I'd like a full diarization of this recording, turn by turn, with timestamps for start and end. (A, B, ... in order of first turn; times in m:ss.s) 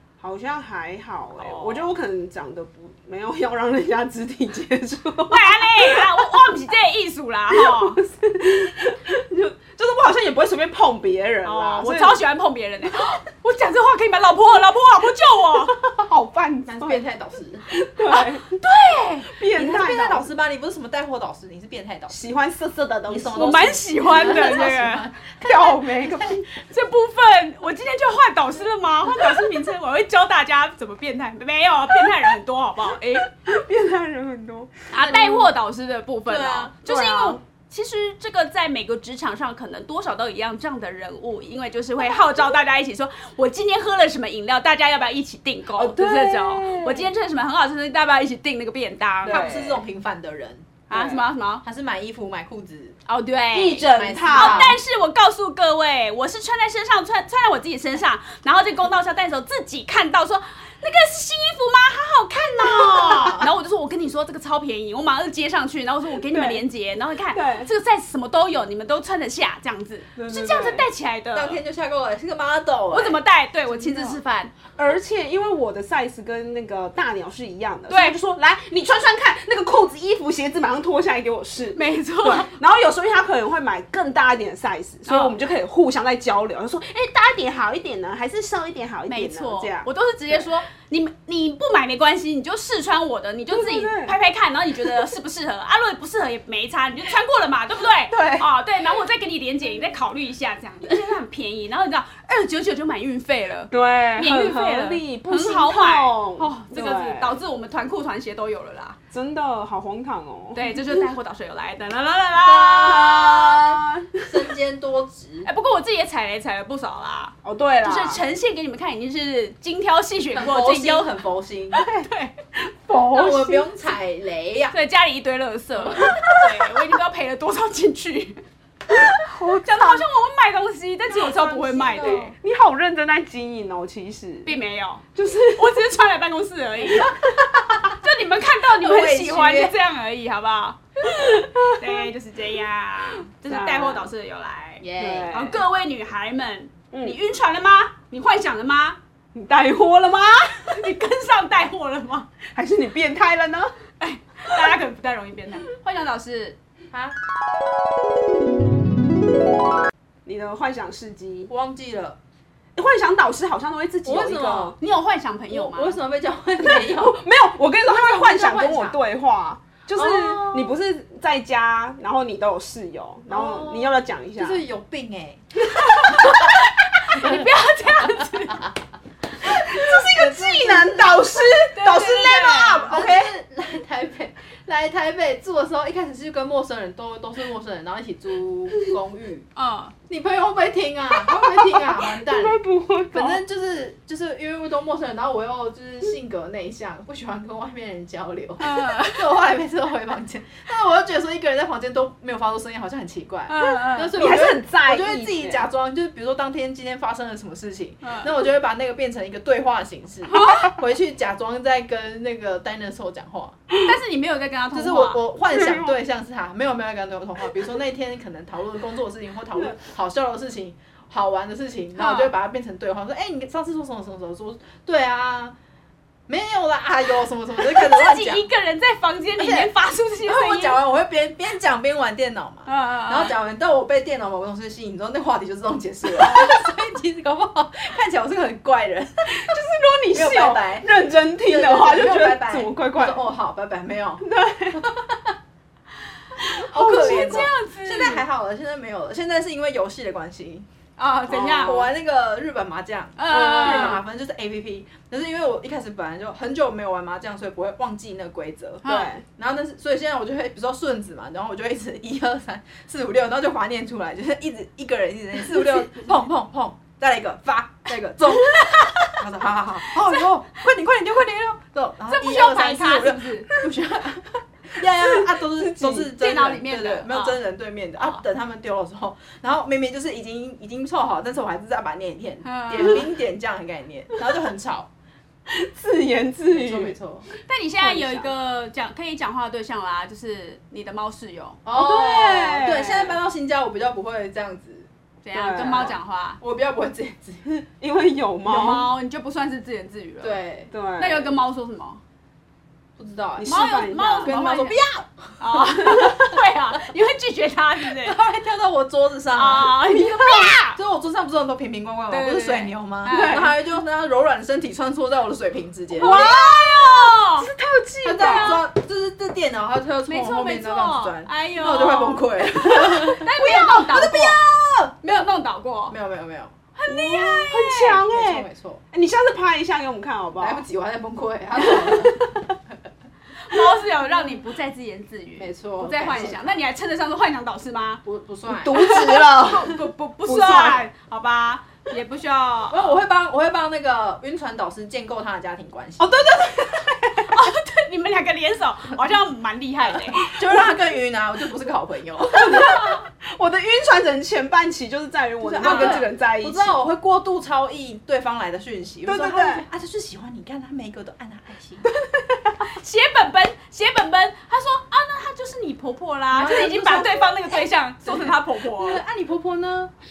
0:00.2-0:06.5 A
0:01.4-0:01.9 B
0:05.3-0:08.0 B
0:07.5-0:12.2 A
0:11.4-0:15.8 B
0:15.9-0:17.0 A
0:16.7-0:17.6 C
0:17.7-0:18.6 A
0:18.1-0:19.3 B
0:19.3-0:20.3 A
0:19.6-0:22.2 C
0:22.1-0:23.6 A
0:23.1-0:25.7 C
0:23.3-0:25.1 B
0:25.4-0:26.4 A
0:26.5-0:33.3 B
0:33.3-0:35.4 A
0:34.9-0:49.5 B
0:35.0-0:35.5 C
0:36.3-0:36.8 C
0:36.9-0:37.4 A
0:45.8-0:47.1 A
0:49.2-0:49.8 A
0:49.3-0:50.7 C
0:50.9-0:51.6 B
0:50.9-0:51.3 A
0:51.6-0:53.0 C
0:53.1-1:11.6 B
0:53.5-0:54.8 A
0:53.9-0:54.8 C
1:02.8-1:03.5 C
1:06.3-1:06.6 A
1:07.3-1:07.7 A
1:10.2-1:10.9 A
1:11.3-1:13.2 C
1:12.9-1:14.5 B
1:13.7-1:14.2 A
1:14.8-1:29.9 A
1:17.9-1:18.2 B
1:21.7-1:22.5 B
1:25.1-1:25.4 B
1:29.1-1:49.0 B
1:33.5-1:34.2 A
1:38.1-1:38.5 A
1:43.7-1:47.4 A
1:49.1-1:50.9 A
1:50.5-1:53.8 B
1:52.4-1:53.5 C
1:52.8-1:54.4 A
1:54.2-1:55.5 C
1:55.4-2:01.1 B
1:57.4-1:58.2 A
2:00.4-2:01.8 C
2:01.8-2:02.4 B
2:02.9-2:03.6 A
2:02.9-2:03.5 B
2:03.0-2:04.8 C
2:04.7-2:08.4 B
2:09.0-2:10.0 A
2:09.6-2:12.3 B
2:11.2-2:14.5 A
2:11.4-2:12.4 C
2:14.4-2:17.2 B
2:15.2-2:15.9 A
2:17.1-2:17.8 C
2:17.9-2:29.0 B
2:18.8-2:19.7 C
2:23.5-2:24.1 A
2:24.8-2:25.3 C
2:25.0-2:25.6 A
2:26.9-2:27.2 A
2:29.3-2:30.8 A
2:30.7-2:32.3 B
2:32.5-2:33.7 A
2:34.0-2:36.6 B
2:40.2-2:41.5 A
2:41.5-2:42.2 C
2:42.8-2:44.8 A
2:44.0-2:44.8 C
2:44.8-2:46.0 B
2:45.5-2:47.2 C
2:46.6-2:54.6 A
2:47.8-2:49.0 C
2:50.0-2:50.8 C
2:53.3-2:55.5 C
2:56.0-2:58.6 B
2:56.0-2:56.4 C
2:57.2-2:58.3 C
2:59.4-3:03.2 A
2:59.7-3:01.1 C
3:01.7-3:03.0 B
3:02.7-3:09.5 C
3:09.6-3:09.9 B
3:10.1-3:33.6 C
3:11.2-3:13.4 A
3:18.6-3:19.4 B
3:23.5-3:24.2 B
3:24.2-3:25.6 A
3:28.0-3:28.3 B
3:30.3-3:30.8 B
3:33.8-3:35.2 B
3:34.7-3:45.6 C
3:35.5-3:35.9 A
3:42.0-3:42.3 B
3:46.3-3:48.4 C
3:47.8-3:50.8 B
3:50.2-3:59.3 C
3:52.7-3:53.4 B
3:59.3-4:03.3 A
4:00.1-4:05.3 C
4:04.2-4:04.8 A
4:06.6-4:08.2 B
4:06.7-4:10.7 C
4:06.9-4:07.3 A
4:11.0-4:11.9 B
4:11.3-4:44.9 C
4:13.2-4:14.0 B
4:13.3-4:14.0 A
4:18.8-4:19.1 B
4:18.8-4:19.2 A
4:28.5-4:29.0 B
4:32.1-4:33.5 B
4:34.8-4:36.1 A
4:36.1-4:37.4 B
4:42.4-4:43.0 B
4:45.5-4:46.9 A
4:46.5-4:47.3 C
4:47.4-4:51.6 B
4:47.8-4:48.3 A
4:51.6-4:54.9 C
4:51.7-4:53.2 A
4:55.2-4:56.4 B
4:55.3-4:56.0 A
4:56.4-4:57.6 C
4:57.8-4:58.9 A
4:58.4-5:00.4 B
5:00.2-5:00.7 C
5:00.7-5:01.4 A
5:01.0-5:02.0 B
5:03.0-5:06.4 C
5:03.4-5:04.4 A
5:03.5-5:04.8 B
5:05.4-5:08.2 B
5:08.0-5:09.8 C
5:09.3-5:10.8 B
5:09.9-5:10.6 A
5:10.8-5:16.2 C
5:12.1-5:13.6 B
5:13.1-5:13.5 A
5:15.9-5:17.5 B
5:16.0-5:18.6 A
5:18.0-5:25.3 C
5:18.2-5:18.6 B
5:20.1-5:24.4 B
5:25.0-5:26.0 B
5:25.9-5:26.5 C
5:26.8-5:28.0 B
5:26.9-5:30.6 A
5:27.8-5:28.8 C
5:30.4-5:32.3 C
5:31.6-5:32.2 A
5:33.4-5:38.0 B
5:35.4-5:36.6 C
5:38.0-5:39.0 C
5:38.5-5:40.9 A
5:38.7-5:43.0 B
5:42.7-5:46.3 C
5:46.0-5:47.5 A
5:47.3-5:50.4 B
5:50.1-5:52.8 C
5:52.4-5:56.8 A
5:55.4-6:01.9 C
5:55.6-5:56.1 B
5:59.0-5:59.6 A
6:02.0-6:02.5 A
6:02.6-6:09.0 B
6:06.3-6:09.9 C